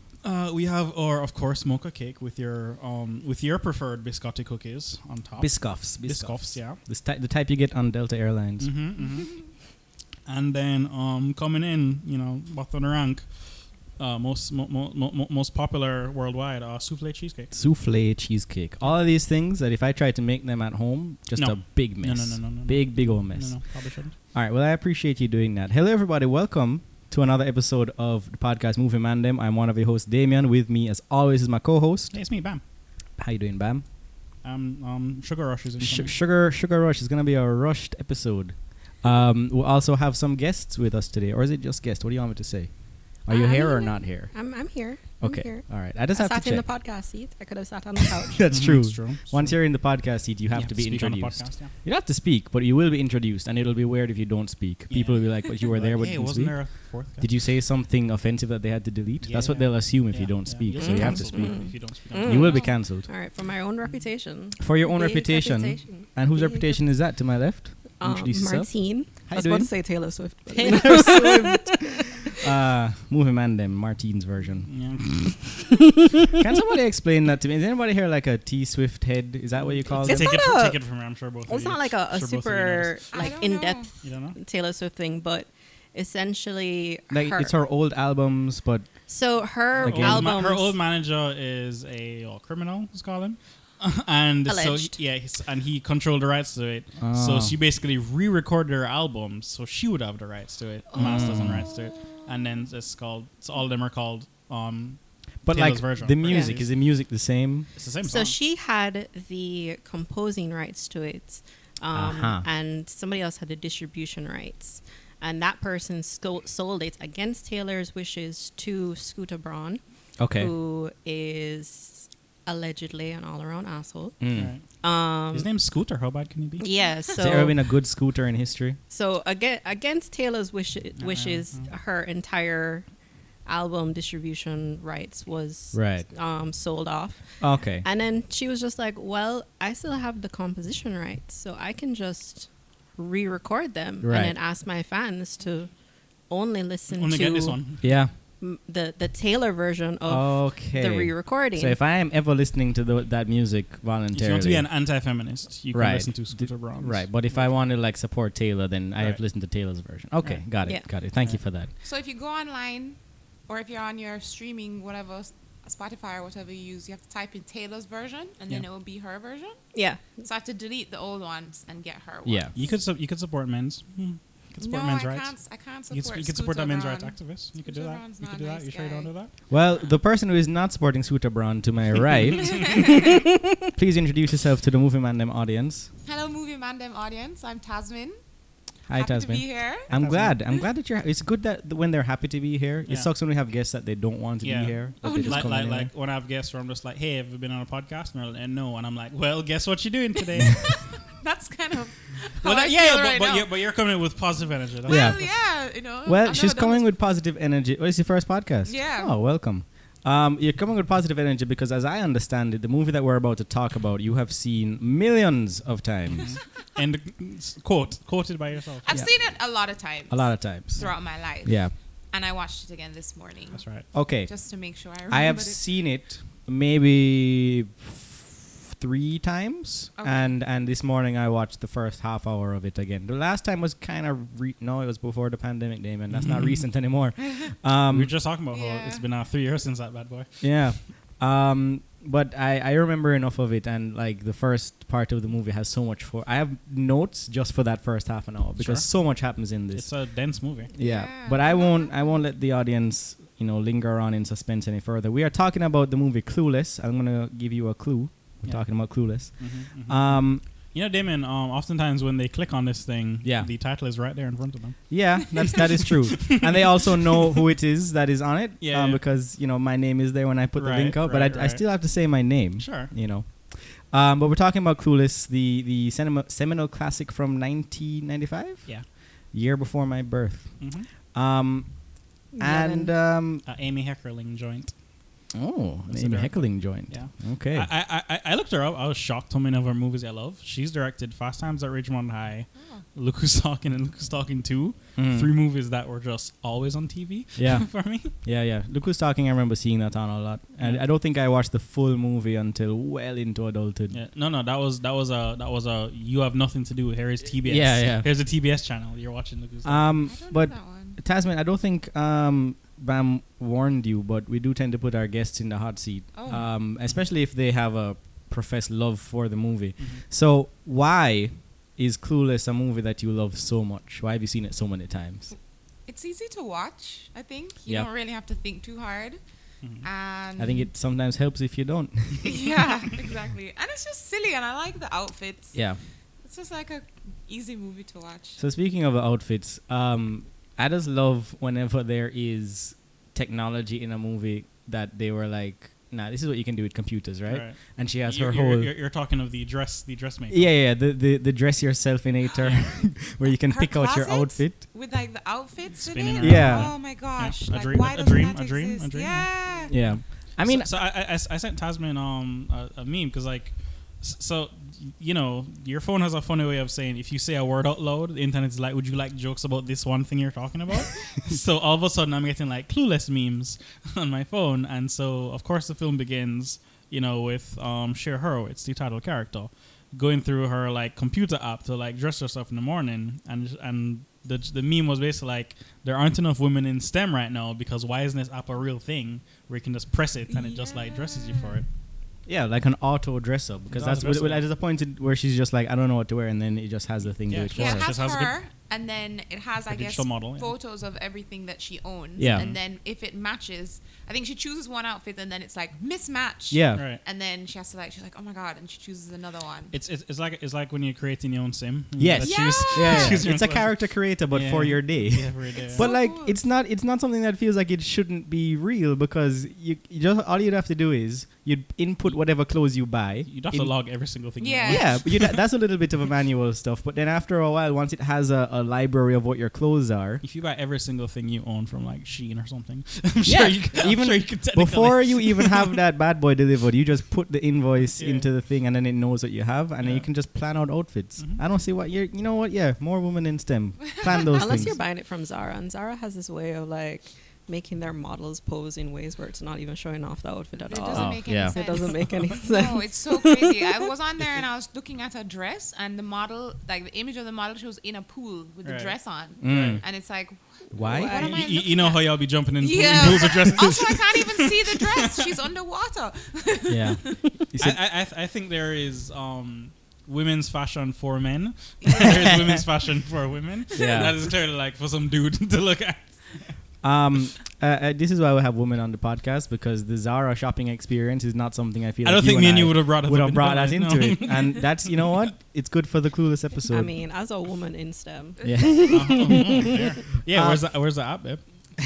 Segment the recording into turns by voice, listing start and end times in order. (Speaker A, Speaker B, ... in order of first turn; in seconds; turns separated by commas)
Speaker A: 0.2-6.8, Speaker B: 5.4-8.7, Speaker A: 8.6-9.4, Speaker A: 10.2-17.5, Speaker B: 17.5-23.6, Speaker A: 21.4-24.1, Speaker B: 24.3-32.2, Speaker A: 32.1-32.6, Speaker B: 33.2-33.8, Speaker A: 34.4-36.1, Speaker B: 35.8-44.3, Speaker C: 43.3-48.4, Speaker B: 45.2-46.7, Speaker B: 48.3-63.1, Speaker A: 48.5-49.8, Speaker A: 50.5-51.7, Speaker A: 54.9-57.3, Speaker A: 59.2-62.7, Speaker C: 60.8-66.8, Speaker B: 64.6-69.8, Speaker C: 68.0-72.3, Speaker B: 70.5-74.7, Speaker A: 74.7-75.8, Speaker B: 76.3-80.4, Speaker A: 79.9-83.2, Speaker C: 79.9-80.8, Speaker C: 81.5-87.5, Speaker D: 83.1-83.9, Speaker A: 84.0-84.4, Speaker B: 87.1-88.9, Speaker C: 89.1-90.8, Speaker A: 89.8-106.7, Speaker B: 89.8-90.3, Speaker C: 94.5-95.0, Speaker B: 97.0-97.5, Speaker D: 100.9-102.2, Speaker B: 100.9-101.7, Speaker B: 105.4-107.7, Speaker A: 107.8-108.3, Speaker C: 108.0-119.8, Speaker B: 111.9-112.4, Speaker B: 120.2-120.5, Speaker C: 120.3-124.2, Speaker B: 124.2-124.5, Speaker A: 124.3-124.6, Speaker C: 124.8-125.5, Speaker A: 125.3-126.7, Speaker C: 126.6-127.6, Speaker D: 126.8-127.2, Speaker B: 127.2-128.8, Speaker C: 128.9-132.8, Speaker A: 131.0-131.7, Speaker C: 133.4-145.7, Speaker B: 135.7-136.1, Speaker B: 137.4-137.8, Speaker B: 144.0-144.3, Speaker C: 146.3-147.8, Speaker A: 146.9-147.8, Speaker B: 147.8-148.1, Speaker C: 148.4-151.8, Speaker B: 150.1-154.7, Speaker A: 154.1-157.5, Speaker B: 155.7-161.7, Speaker D: 161.8-169.6, Speaker C: 169.7-170.2, Speaker D: 170.2-172.8, Speaker B: 172.2-172.5, Speaker A: 172.5-175.3, Speaker D: 174.6-179.1, Speaker A: 175.9-179.3, Speaker B: 179.5-182.9, Speaker D: 182.3-183.2, Speaker B: 183.6-185.9, Speaker D: 186.0-188.2, Speaker B: 188.9-195.9, Speaker D: 188.9-189.9, Speaker A: 189.9-190.4, Speaker A: 194.4-200.7, Speaker D: 195.0-195.5, Speaker D: 200.4-203.5, Speaker A: 202.4-205.2, Speaker D: 204.8-206.9, Speaker B: 204.9-205.5, Speaker B: 206.0-216.4, Speaker D: 208.7-209.1, Speaker A: 216.1-219.0, Speaker D: 218.8-225.6, Speaker B: 220.1-220.8, Speaker B: 221.4-221.7, Speaker A: 223.5-223.9, Speaker B: 223.9-224.3, Speaker B: 225.1-238.1, Speaker D: 230.0-230.3, Speaker A: 236.1-236.7, Speaker A: 237.9-240.4, Speaker D: 238.5-239.0, Speaker B: 240.4-249.9, Speaker A: 248.6-249.1, Speaker A: 249.7-250.7, Speaker B: 250.7-260.4, Speaker D: 250.8-252.0, Speaker A: 258.4-264.9, Speaker B: 263.2-263.5, Speaker B: 264.9-281.8, Speaker A: 266.2-266.8, Speaker A: 268.6-269.0, Speaker A: 270.6-271.6, Speaker A: 272.6-272.9, Speaker A: 280.6-280.9, Speaker C: 282.3-282.9, Speaker B: 282.4-283.4, Speaker A: 283.4-284.7, Speaker B: 285.3-287.7, Speaker A: 285.9-298.1, Speaker B: 294.9-295.3, Speaker B: 297.4-303.9, Speaker A: 303.9-309.9, Speaker B: 307.4-308.1, Speaker B: 309.6-325.3, Speaker D: 310.1-311.0, Speaker D: 316.1-316.4, Speaker D: 325.9-329.2, Speaker D: 329.8-330.7, Speaker B: 330.4-332.5, Speaker D: 332.2-335.6, Speaker B: 335.5-335.8, Speaker D: 336.2-338.4, Speaker B: 338.4-348.7, Speaker A: 347.3-350.5, Speaker B: 350.3-354.6, Speaker D: 353.4-359.7, Speaker A: 355.8-391.7, Speaker B: 356.2-356.7, Speaker B: 359.7-360.7, Speaker D: 390.3-391.5, Speaker B: 392.2-397.9, Speaker A: 393.7-394.4, Speaker A: 397.3-398.3, Speaker D: 397.5-409.7, Speaker A: 399.7-400.5, Speaker B: 402.2-402.5, Speaker A: 402.3-402.6, Speaker B: 406.5-406.8, Speaker A: 406.8-407.0, Speaker A: 409.7-415.8, Speaker B: 412.0-423.8, Speaker D: 412.2-413.3, Speaker D: 415.6-416.4, Speaker A: 423.2-425.4, Speaker D: 424.4-425.0, Speaker B: 424.7-430.2, Speaker A: 430.2-435.8, Speaker B: 433.2-444.8, Speaker A: 437.9-438.3, Speaker A: 439.8-440.1, Speaker D: 444.0-444.6, Speaker C: 444.1-453.9, Speaker D: 450.6-467.2, Speaker B: 450.9-451.6, Speaker A: 458.6-459.8, Speaker B: 459.4-459.8, Speaker B: 460.7-461.2, Speaker C: 460.8-461.4, Speaker A: 461.1-465.4, Speaker B: 466.7-467.8, Speaker A: 467.6-476.5, Speaker D: 471.8-472.3, Speaker B: 472.1-472.5, Speaker B: 473.7-474.2, Speaker B: 476.8-486.9, Speaker A: 482.0-485.1, Speaker C: 486.7-489.9, Speaker D: 488.4-489.2, Speaker B: 488.4-489.2, Speaker A: 488.9-491.4, Speaker B: 490.3-490.6